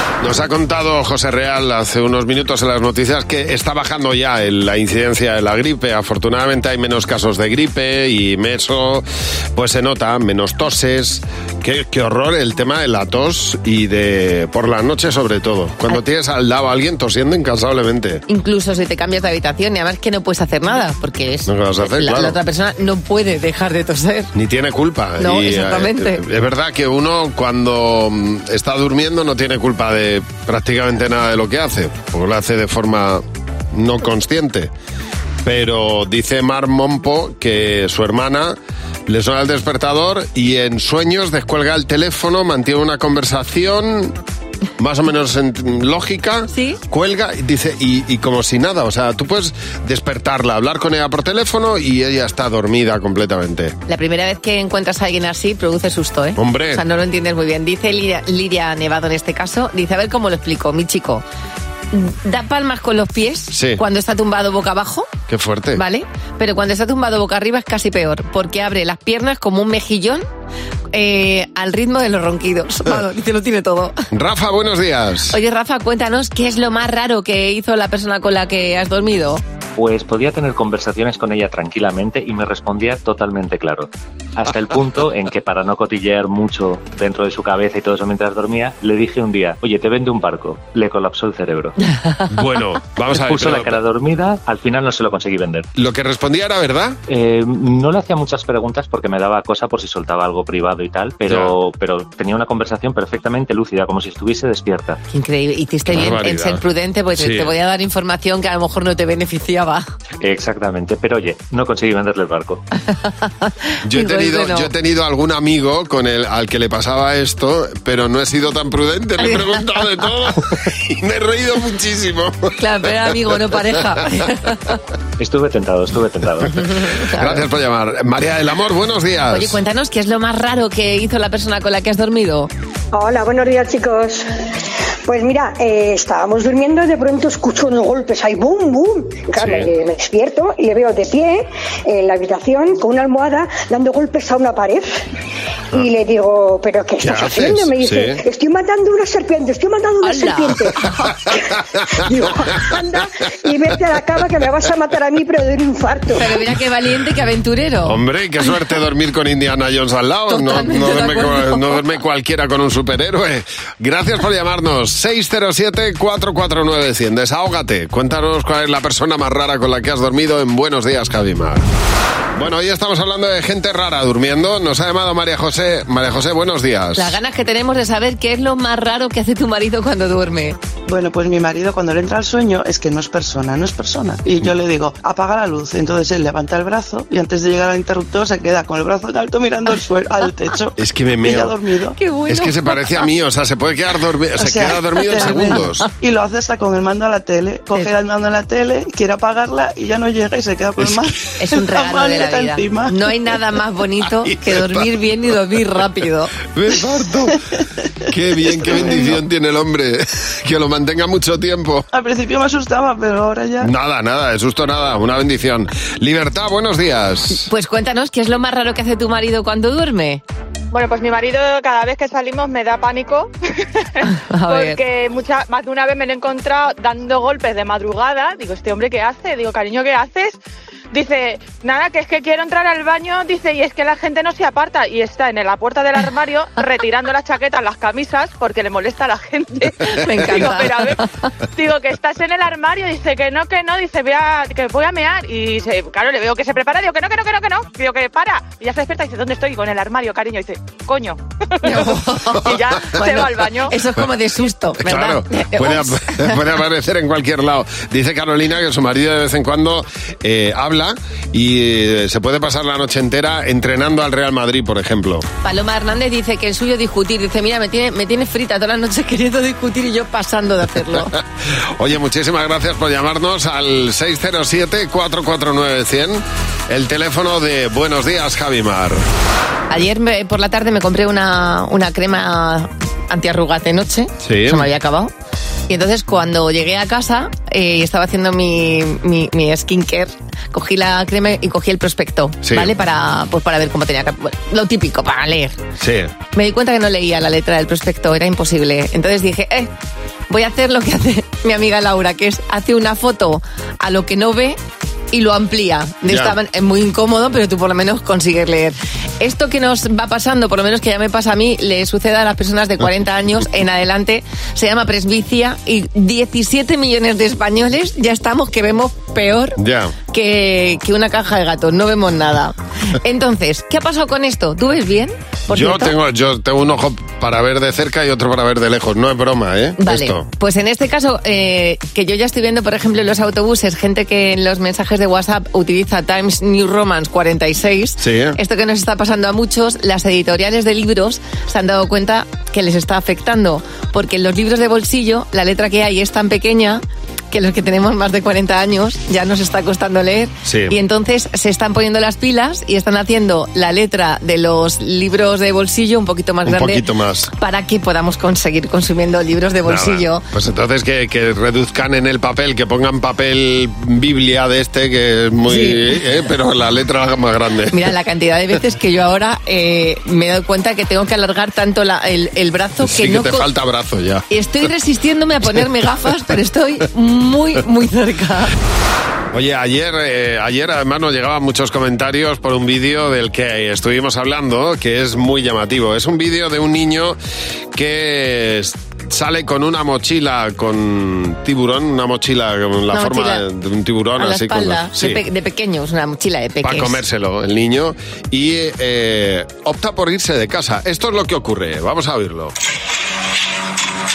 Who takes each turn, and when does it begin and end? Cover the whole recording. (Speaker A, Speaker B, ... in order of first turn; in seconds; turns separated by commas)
Speaker A: 0.2-18.2, Speaker B: 18.3-24.3, Speaker A: 21.5-22.4, Speaker A: 24.3-34.7, Speaker B: 25.2-26.2, Speaker A: 35.4-44.1, Speaker A: 44.8-53.8, Speaker B: 46.5-46.8, Speaker B: 53.9-61.2, Speaker A: 56.4-56.8, Speaker B: 61.9-65.1, Speaker A: 63.5-63.8, Speaker A: 65.3-65.8, Speaker B: 65.8-70.2, Speaker B: 70.9-74.0, Speaker A: 74.1-75.4, Speaker B: 75.3-79.4, Speaker C: 79.8-91.8, Speaker A: 92.3-93.8, Speaker C: 93.1-95.7, Speaker A: 95.8-97.0, Speaker C: 97.1-105.0, Speaker A: 101.3-101.5, Speaker B: 105.1-109.9, Speaker A: 105.9-106.6, Speaker A: 107.2-107.5, Speaker C: 110.2-112.6, Speaker B: 112.9-114.7, Speaker A: 113.8-122.5, Speaker B: 119.2-119.7, Speaker B: 122.6-124.7, Speaker C: 125.2-126.5, Speaker B: 126.5-127.4, Speaker A: 127.1-129.6, Speaker B: 129.3-132.5, Speaker D: 132.9-134.2, Speaker D: 135.1-144.8, Speaker A: 139.4-139.7, Speaker D: 145.7-150.7, Speaker A: 147.0-148.2, Speaker B: 150.0-151.2, Speaker D: 152.0-156.3, Speaker B: 156.1-158.0, Speaker A: 157.8-171.7, Speaker B: 160.3-161.8, Speaker A: 172.3-177.2, Speaker B: 176.9-180.6, Speaker E: 180.9-191.9, Speaker A: 190.8-191.6, Speaker B: 191.9-193.0, Speaker A: 192.3-195.8, Speaker E: 194.4-203.0, Speaker B: 195.1-195.6, Speaker B: 201.4-206.3, Speaker A: 204.3-204.9, Speaker A: 206.5-207.4, Speaker A: 208.1-211.8, Speaker E: 208.6-209.2, Speaker E: 211.9-213.7, Speaker A: 213.6-217.5, Speaker B: 217.4-220.2, Speaker F: 220.7-223.3, Speaker F: 223.9-230.4, Speaker B: 224.3-224.8, Speaker F: 230.9-241.0, Speaker B: 239.9-241.1, Speaker F: 241.5-251.9, Speaker B: 251.6-256.4, Speaker F: 252.4-253.8, Speaker A: 254.8-265.2, Speaker B: 265.4-271.1, Speaker A: 271.8-279.0, Speaker B: 279.7-285.1, Speaker A: 284.2-284.7, Speaker B: 285.7-295.6, Speaker A: 292.4-292.7, Speaker A: 295.8-296.1, Speaker B: 296.3-299.7, Speaker B: 300.3-304.6, Speaker B: 305.1-319.6, Speaker A: 306.1-306.4, Speaker A: 319.6-319.9, Speaker B: 320.1-325.9, Speaker A: 325.5-330.2, Speaker B: 329.8-360.2, Speaker A: 338.0-338.4, Speaker A: 350.4-350.8, Speaker A: 356.4-357.3, Speaker A: 359.6-367.9, Speaker B: 365.5-365.8, Speaker B: 367.7-373.4, Speaker A: 372.8-374.2, Speaker B: 374.3-378.5, Speaker A: 379.3-387.2, Speaker A: 387.7-395.2, Speaker B: 392.9-393.4, Speaker B: 394.2-397.0, Speaker A: 396.6-402.5